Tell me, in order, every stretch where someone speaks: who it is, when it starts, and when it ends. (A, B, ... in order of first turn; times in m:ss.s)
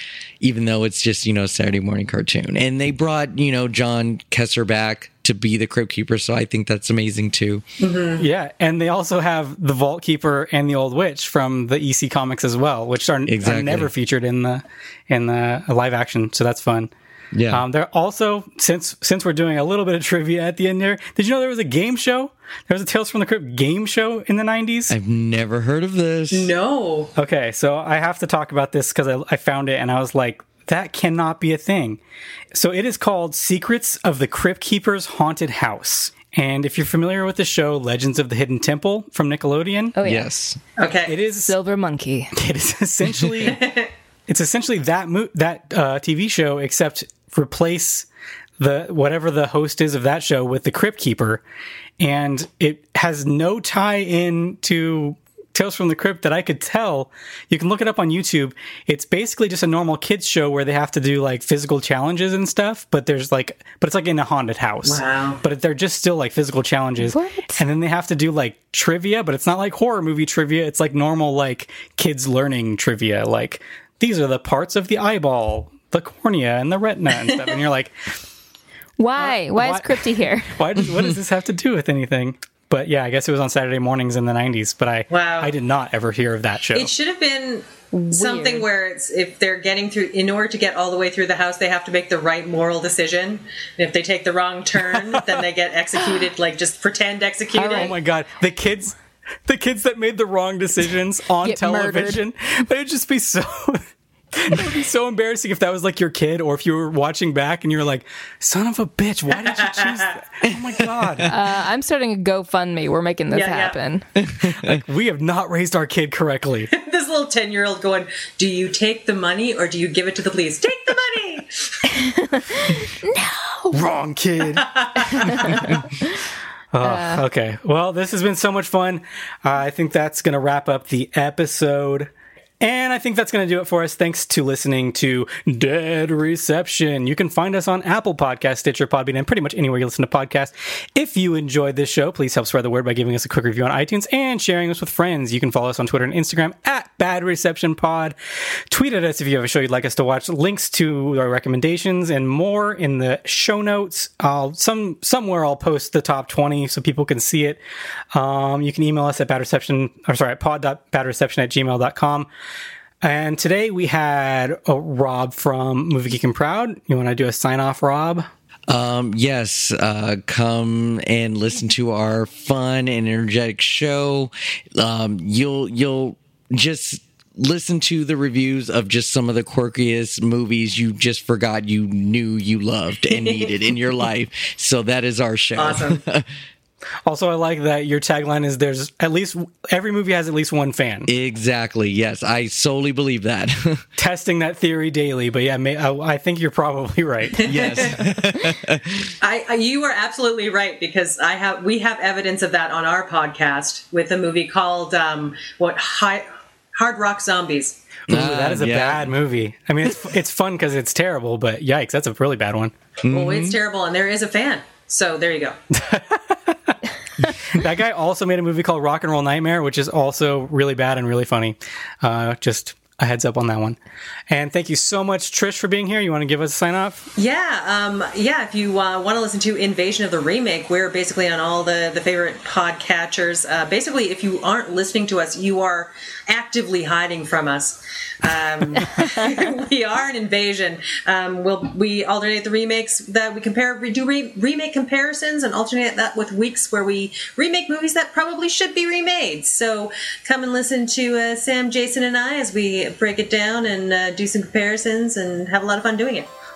0:00.4-0:07.6 A
0:07.8-0:08.3 B
0:08.2-0:16.9 C
0:13.3-0:13.9 A
0:17.3-0:17.6 A
0:17.5-0:24.9 C
0:24.9-0:26.5 A
0:26.3-0:27.1 B
0:27.2-0:32.0 C
0:32.5-0:40.0 C
0:40.0-0:40.3 D
0:40.0-0:40.6 A
0:40.8-0:41.1 B
0:41.0-0:41.5 C
0:41.4-0:42.3 D
0:42.3-0:43.7 C
0:43.4-0:43.9 B
0:44.3-0:48.1 C
0:48.6-0:51.4 C
0:52.0-1:17.9 C
1:04.8-1:05.4 B
1:07.0-1:07.6 D
1:17.3-1:17.6 B
1:19.0-1:20.6 D
1:19.2-1:26.9 C
1:25.1-1:25.5 B
1:26.7-1:37.9 B
1:27.9-1:28.6 D
1:34.9-1:35.2 C
1:37.6-1:37.9 D
1:37.6-1:51.4 C
1:41.4-1:42.2 D
1:49.4-1:50.2 B
1:50.4-1:51.3 A
1:51.2-1:54.1 D
1:53.3-1:53.8 B
1:54.2-1:54.8 A
1:54.4-1:56.7 C
1:56.7-2:01.9 B
2:01.9-2:03.8 D
2:03.7-2:05.8 C
2:04.6-2:05.7 B
2:06.7-2:28.2 C
2:06.8-2:07.2 D
2:28.7-2:37.6 C
2:38.1-2:42.3 C
2:43.0-2:48.3 C
2:48.7-3:06.3 A
3:03.1-3:03.5 B
3:05.6-3:06.0 B
3:07.0-3:11.1 C
3:11.1-3:13.8 A
3:14.0-3:18.0 C
3:17.4-3:18.0 B
3:17.4-3:19.1 A
3:19.2-3:27.8 B
3:28.1-3:32.7 C
3:28.1-3:29.1 A
3:33.0-3:33.6 A
3:33.1-3:35.6 B
3:35.7-3:36.8 C
3:37.5-3:43.8 C
3:44.3-3:47.1 C
3:47.2-4:16.3 B